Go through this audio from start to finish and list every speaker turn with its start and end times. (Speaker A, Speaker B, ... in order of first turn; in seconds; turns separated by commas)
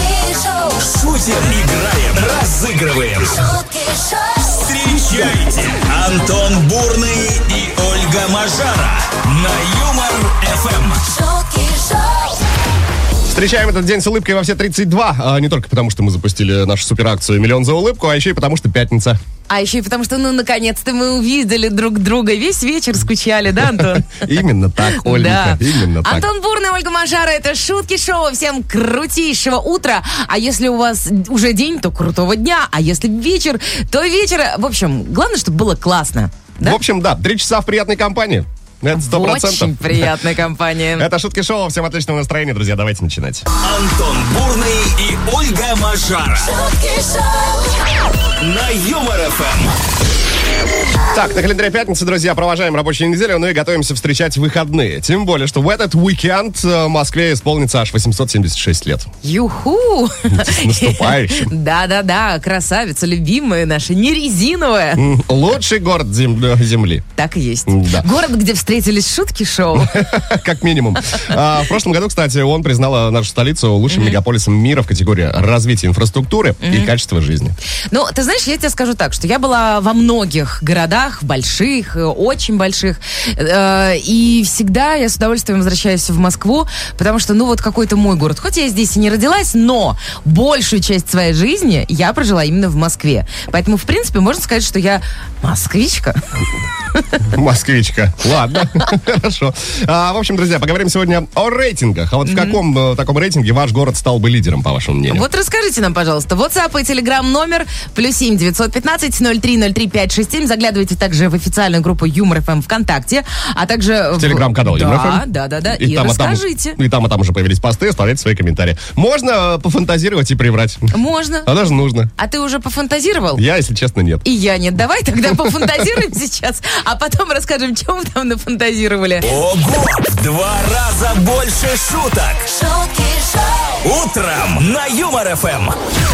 Speaker A: 0.5-3.6, Speaker A: 4.3-11.1, Speaker B: 13.3-19.2, Speaker C: 19.5-24.2, Speaker B: 23.7-26.3, Speaker C: 24.8-36.8, Speaker B: 36.6-40.2, Speaker C: 38.9-41.1, Speaker B: 41.0-43.5, Speaker A: 43.5-46.6, Speaker A: 48.4-49.8, Speaker B: 51.1-59.1, Speaker C: 59.2-65.0, Speaker B: 60.3-61.5, Speaker B: 65.0-67.0, Speaker C: 67.2-70.2, Speaker B: 67.7-68.1, Speaker B: 69.7-77.5, Speaker C: 73.9-74.2, Speaker C: 76.6-76.9, Speaker C: 77.9-96.2, Speaker B: 97.2-105.2, Speaker C: 102.2-102.6, Speaker C: 105.1-116.8, Speaker B: 114.2-120.9, Speaker C: 120.9-121.5, Speaker B: 121.4-122.1, Speaker C: 122.2-123.4, Speaker B: 123.3-124.2, Speaker C: 124.2-129.2, Speaker A: 129.2-132.5, Speaker A: 133.8-135.8